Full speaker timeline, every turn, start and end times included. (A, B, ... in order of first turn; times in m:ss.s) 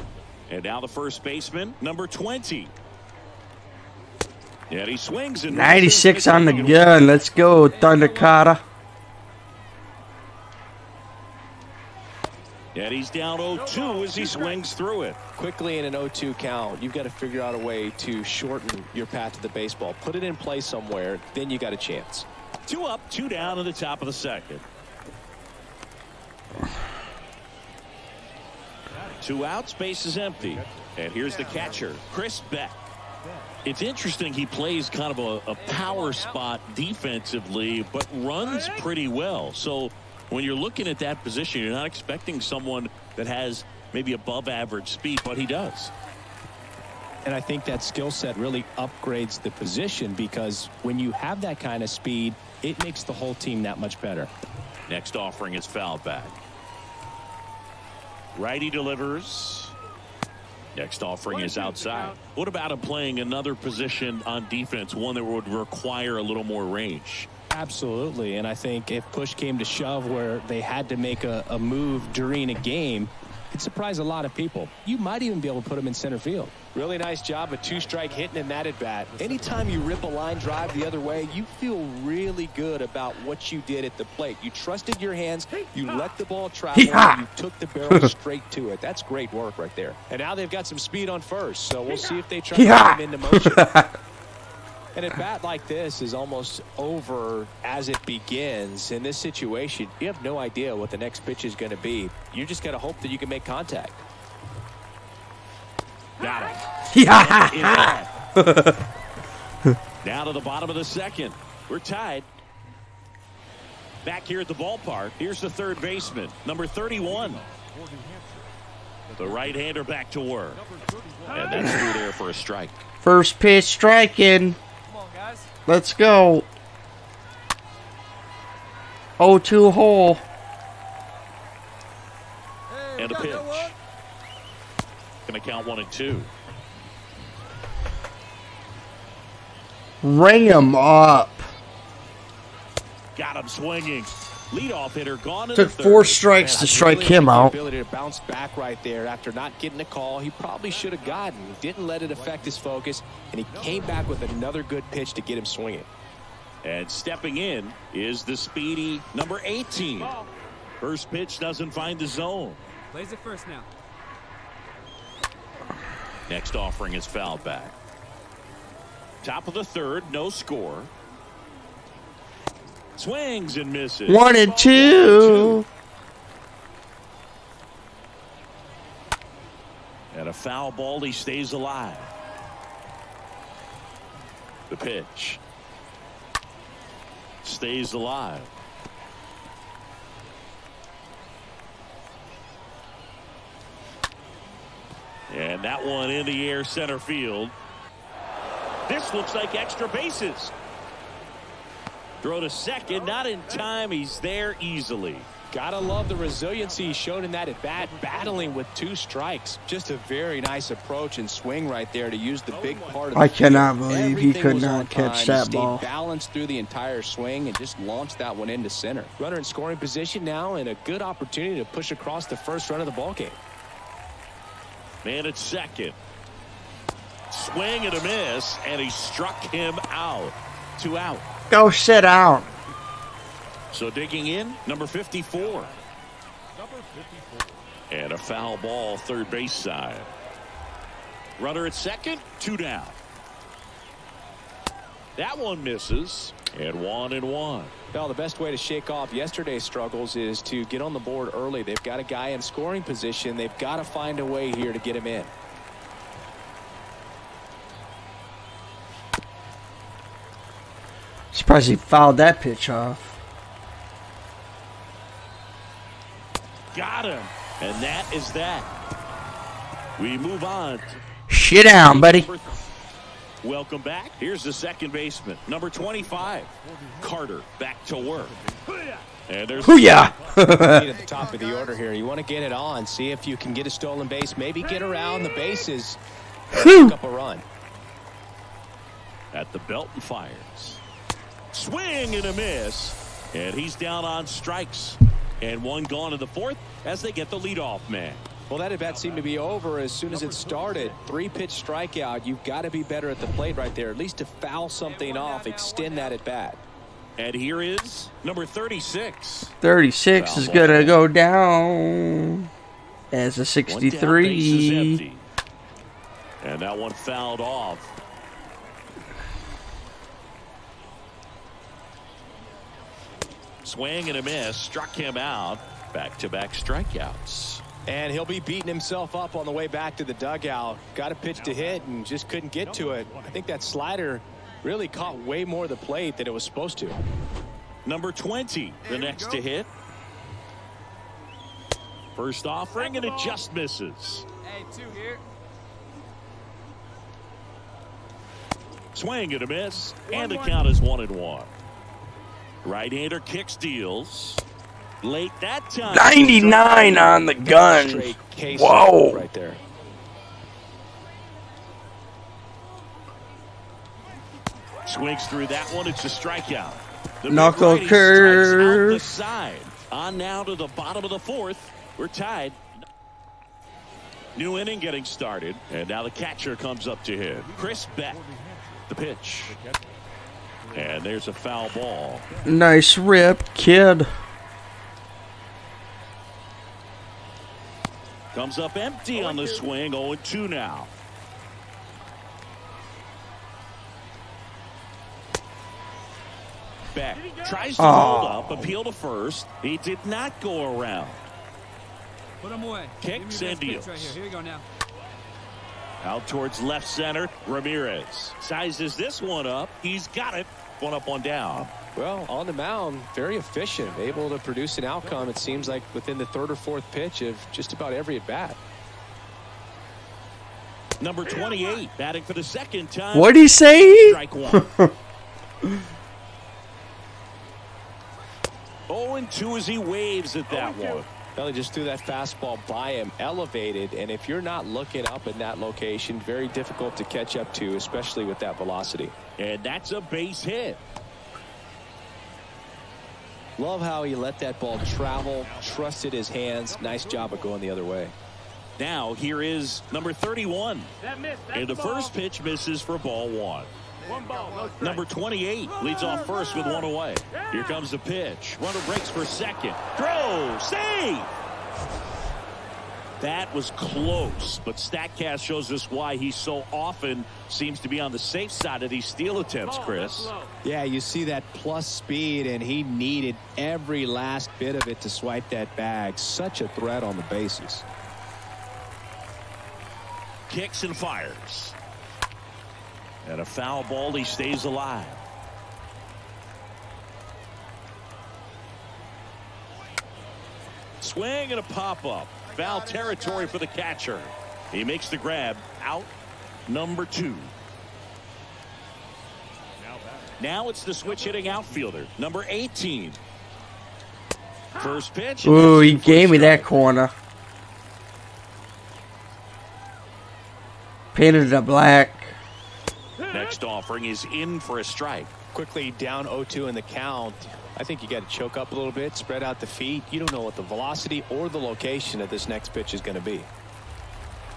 0:00.5-0:02.7 A
0:04.7-0:07.0 A
0:05.5-0:08.6 B
0:07.7-0:08.5 C
0:12.7-0:15.2 A
0:13.5-0:14.7 C
0:15.4-0:22.2 D
0:22.7-0:24.6 A
0:28.9-0:29.6 E
0:29.2-0:32.8 A
0:30.3-0:31.9 E
0:31.2-0:31.8 C
0:33.2-0:33.6 E
0:33.6-0:45.9 A
0:35.5-0:36.4 C
0:38.4-0:38.9 C
0:47.2-0:54.3 D
0:54.9-0:56.4 A
0:58.3-0:59.7 A
1:00.7-1:07.3 A
1:01.3-1:02.2 C
1:07.5-1:33.7 D
1:17.6-1:21.5 E
1:26.7-1:27.2 B
1:32.5-1:34.0 B
1:34.9-1:44.0 D
1:46.2-1:48.1 A
1:46.2-1:46.5 C
1:46.9-1:48.8 B
1:50.0-1:52.3 A
1:54.0-1:57.4 A
1:56.9-1:58.5 E
1:59.0-1:59.7 E
1:59.2-2:00.6 A
2:00.5-2:02.0 E
2:01.3-2:01.8 C
2:01.3-2:02.8 A
2:03.0-2:04.6 B
2:04.9-2:05.5 C
2:05.7-2:06.5 B
2:09.2-2:10.2 B
2:12.7-2:13.7 C
2:13.0-2:13.7 A
2:15.3-2:16.3 A
2:20.0-2:21.4 B
2:23.2-2:26.2 A
2:25.5-2:27.5 B
2:26.4-2:35.9 D
2:30.6-2:32.9 E
2:33.4-2:34.3 E
2:36.6-2:40.2 A
2:40.0-2:40.3 C
2:40.8-2:42.6 A
2:42.9-2:43.7 C
2:46.3-2:47.7 A
2:49.2-2:50.9 A
2:53.0-2:55.6 A
2:54.1-2:55.6 B
3:00.1-3:02.1 A
3:04.7-3:05.4 A
3:07.4-3:08.5 A
3:15.3-3:17.5 A
3:18.9-3:20.5 A
3:22.2-3:25.3 A
3:25.5-3:43.4 D
3:26.5-3:28.7 E
3:32.5-3:33.5 E
3:33.1-3:35.9 B
3:45.0-3:46.0 A
3:47.3-3:51.2 A
3:51.5-3:52.5 B
3:53.7-3:55.7 A
3:55.3-3:56.0 E
3:56.5-3:57.7 E
3:57.9-4:00.1 A
4:01.4-4:03.0 A
4:05.2-4:07.7 A
4:07.9-4:15.3 D
4:21.3-4:23.2 B
4:26.7-4:28.7 A
4:30.0-4:31.0 A
4:31.3-4:32.3 B
4:31.6-4:32.6 A
4:33.4-4:38.4 A
4:35.9-4:41.4 E
4:39.3-4:40.1 A
4:39.6-4:41.0 B
4:40.6-4:46.0 D
4:40.8-4:41.8 C
4:46.5-4:47.4 D
4:46.5-4:46.9 B
4:49.3-4:50.8 A
4:51.5-4:58.2 A
4:58.5-5:06.6 D
4:58.8-5:01.2 E
5:04.8-5:06.2 C
5:07.2-5:09.5 A
5:09.6-5:12.5 B
5:10.1-5:11.0 A
5:13.1-5:15.0 B
5:13.6-5:15.2 A
5:16.4-5:17.9 A
5:23.6-5:27.6 A
5:27.8-5:37.0 D
5:31.3-5:32.0 E
5:32.6-5:33.6 E
5:37.8-5:39.7 A
5:38.8-5:39.4 C
5:42.2-5:44.2 A
5:42.8-5:43.4 C
5:44.4-5:45.2 C
5:48.9-5:51.5 A
5:50.1-5:50.6 C
5:52.6-5:54.4 A
5:55.0-5:57.2 A
5:55.8-5:59.2 B
5:57.4-5:59.6 D
6:04.8-6:12.7 A
6:07.3-6:09.0 B
6:14.3-6:18.2 A
6:17.4-6:20.1 E
6:18.9-6:19.5 A
6:20.6-6:21.1 E
6:20.7-6:22.2 A
6:22.2-6:22.6 E
6:22.4-6:24.1 B
6:28.3-6:30.9 A
6:29.1-6:29.6 C
6:36.9-6:41.2 A
6:37.2-6:37.7 C
6:37.8-6:38.7 B
6:42.4-6:44.6 C
6:43.0-6:44.2 A
6:46.0-6:51.7 A
6:51.9-6:58.6 D
6:53.8-6:54.3 E
6:55.0-6:55.8 E
7:01.0-7:04.6 A
7:01.4-7:01.7 C
7:03.1-7:04.9 B
7:08.9-7:11.1 A
7:10.5-7:11.0 E
7:11.4-7:19.1 D
7:19.4-7:20.8 A
7:23.6-7:28.1 D
7:25.3-7:27.6 E
7:28.8-7:30.9 A
7:31.0-7:32.1 C
7:31.5-7:33.7 A
7:34.0-7:35.0 C
7:34.1-7:35.0 E
7:34.8-7:41.3 A
7:35.7-7:37.8 C
7:43.2-7:50.3 A
7:49.6-7:50.5 C
7:50.6-7:57.8 D
8:00.5-8:01.7 A
8:03.2-8:05.2 A
8:11.0-8:16.1 A
8:12.5-8:13.6 C
8:16.7-8:17.5 A
8:19.8-8:20.4 E
8:20.4-8:23.2 A
8:21.0-8:21.9 E
8:24.8-8:26.7 A
8:25.4-8:27.1 B
8:31.1-8:32.3 B
8:33.3-8:35.3 A
8:35.5-8:43.5 D